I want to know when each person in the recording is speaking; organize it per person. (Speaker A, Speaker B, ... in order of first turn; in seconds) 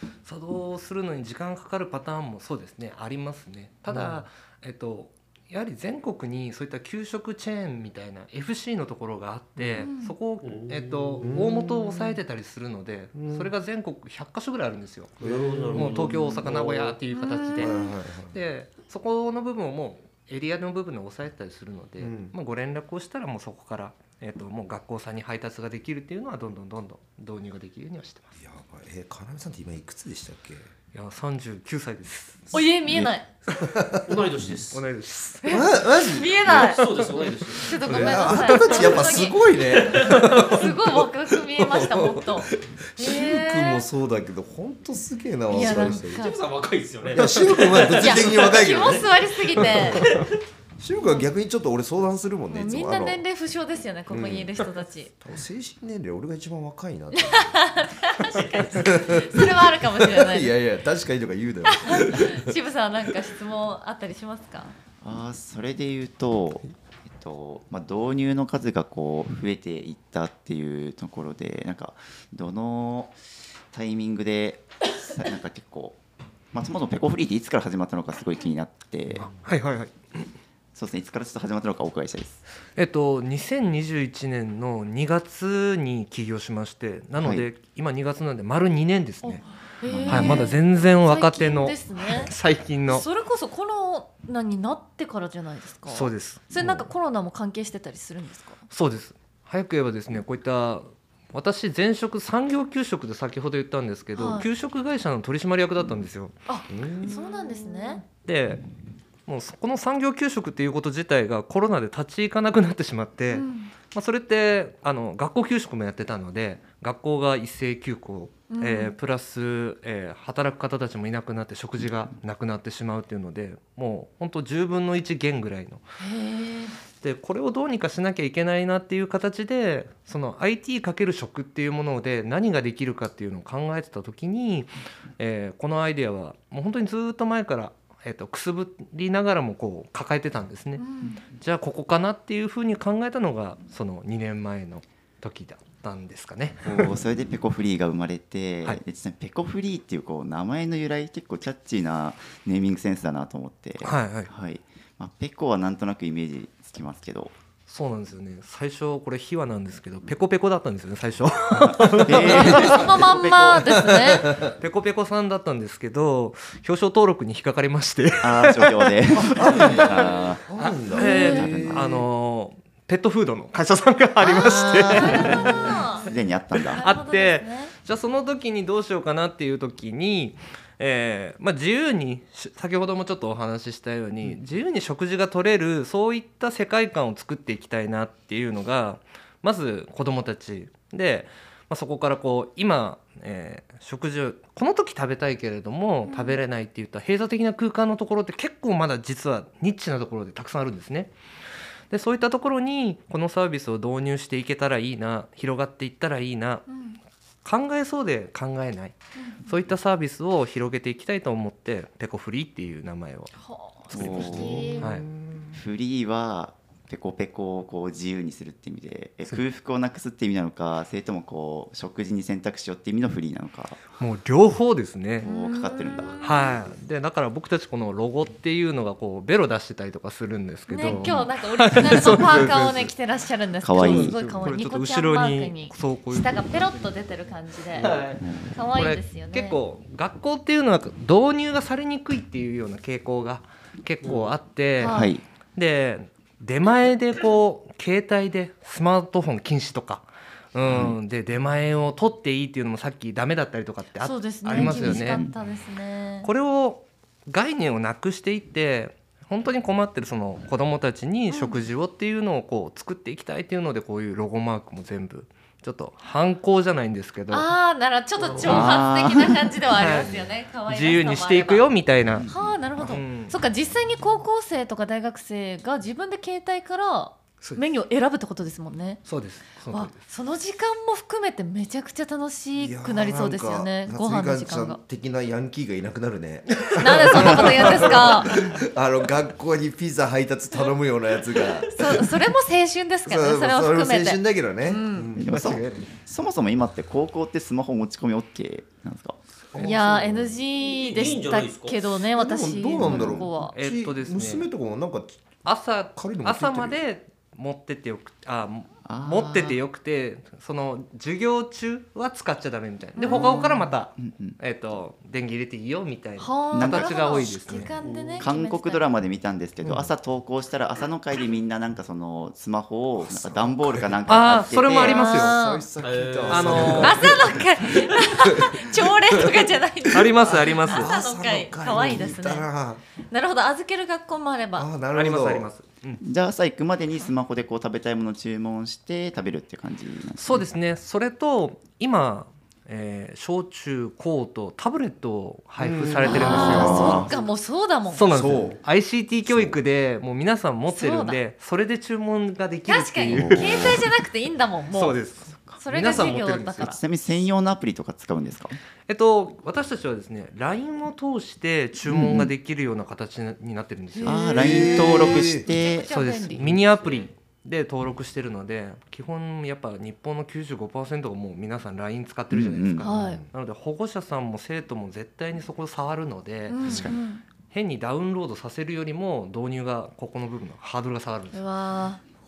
Speaker A: 0.2-28.3, 30.9-32.5, 34.7-35.7, 37.9-39.0, 79.3-80.3, 82.8-89.5, 90.1-93.0, 95.9-96.9, 98.7-106.3, 108.2-108.6, 109.3-125.8, 127.0-147.0, 153.8-154.3, 157.7-162.9, 164.5-169.8, 170.6-175.7, 176.5-201.1, 201.9-206.7, 207.4-213.3, 214.0-215.1, 224.0-225.3, 226.2-232.9, 233.8-236.7, 237.8-238.1, 238.7-245.0, 245.6-255.2, 256.2-267.5, 268.5-268.8, 269.7-270.1, 270.6-272.3, 272.9-273.4, 279.1-280.0, 287.1-287.6, 295.3-295.9, 303.5-304.5, 305.4-317.7, 324.1-325.4, 326.3-327.1, 329.9-330.9, 334.9-336.0, 340.2-347.1, 347.9-353.8, 354.7-356.8, 358.9-364.4, 365.9-376.9, 377.5-381.4
Speaker B: 3.9-4.2, 9.6-9.9, 11.2-12.2, 13.2-13.5, 15.2-16.4, 17.6-18.4, 22.0-22.4, 28.4-30.7, 32.5-34.5, 35.5-37.0, 37.8-46.4, 47.1-50.2, 50.8-53.2, 54.1-54.6, 55.2-57.9, 58.5-62.5, 106.7-107.8, 162.2-162.7, 163.8-164.6, 169.2-172.1, 214.0-215.6, 282.5-292.1, 293.1-295.3, 299.5-300.4, 302.1-305.4, 305.9-306.8, 319.6-319.9, 323.0-324.1, 324.7-332.8, 334.6-335.5, 345.6-347.1, 348.1-348.6, 364.3-365.5, 372.8-373.3
Speaker C: 9.8-10.2, 17.1-17.9, 32.5-33.3, 35.4-43.9, 45.5-46.4, 48.0-50.1, 52.5-55.1, 57.2-60.5, 61.7-64.8, 89.2-92.3, 92.9-98.6, 104.2-104.5, 106.5-108.0, 113.3-113.7, 118.5-118.9, 126.0-126.8, 140.8-141.2, 162.1-164.3, 170.9-171.5, 174.2-177.7, 196.1-196.4, 206.7-207.0, 209.2-209.5, 213.4-215.0, 225.2-226.6, 230.7-238.0, 238.5-239.6, 244.8-245.1, 254.0-256.3, 261.3-261.6, 267.3-271.7, 272.3-279.0, 279.7-284.8, 286.8-288.4, 291.7-295.1, 299.6-303.5, 313.0-313.4, 316.2-318.9, 324.8-325.6, 326.8-332.5, 333.1-334.7, 346.0-348.1, 350.7-351.2, 352.7-355.0, 355.6-356.8, 363.9-366.5, 372.8-373.2, 376.5-377.2, 381.3-382.0
Speaker D: 10.4-11.3, 15.2-17.0, 34.1-34.8, 36.5-37.8, 39.8-40.3, 45.6-49.1, 49.9-50.4, 237.8-238.2, 244.0-244.3, 268.2-268.6, 300.6-301.9, 317.8-318.2, 325.8-326.7
Speaker E: 65.0-73.2, 73.7-76.0, 76.5-79.3, 80.8-82.4, 87.2-87.5, 89.9-90.5, 146.7-157.3, 161.6-163.8, 168.2-170.4, 174.3-176.8, 213.9-214.8, 215.5-223.9, 225.2-226.2, 230.9-231.3, 233.6-234.2, 238.2-238.6, 244.8-245.2, 250.7-251.0, 254.5-255.3, 268.4-269.6, 272.1-272.5, 295.1-299.2, 302.8-303.3, 308.9-309.6, 313.0-314.4, 316.5-317.4, 318.2-325.1, 336.0-340.5, 346.1-347.1, 353.1-353.9, 355.4-358.6, 361.9-362.3, 364.0-365.9, 372.3-372.9, 376.6-377.0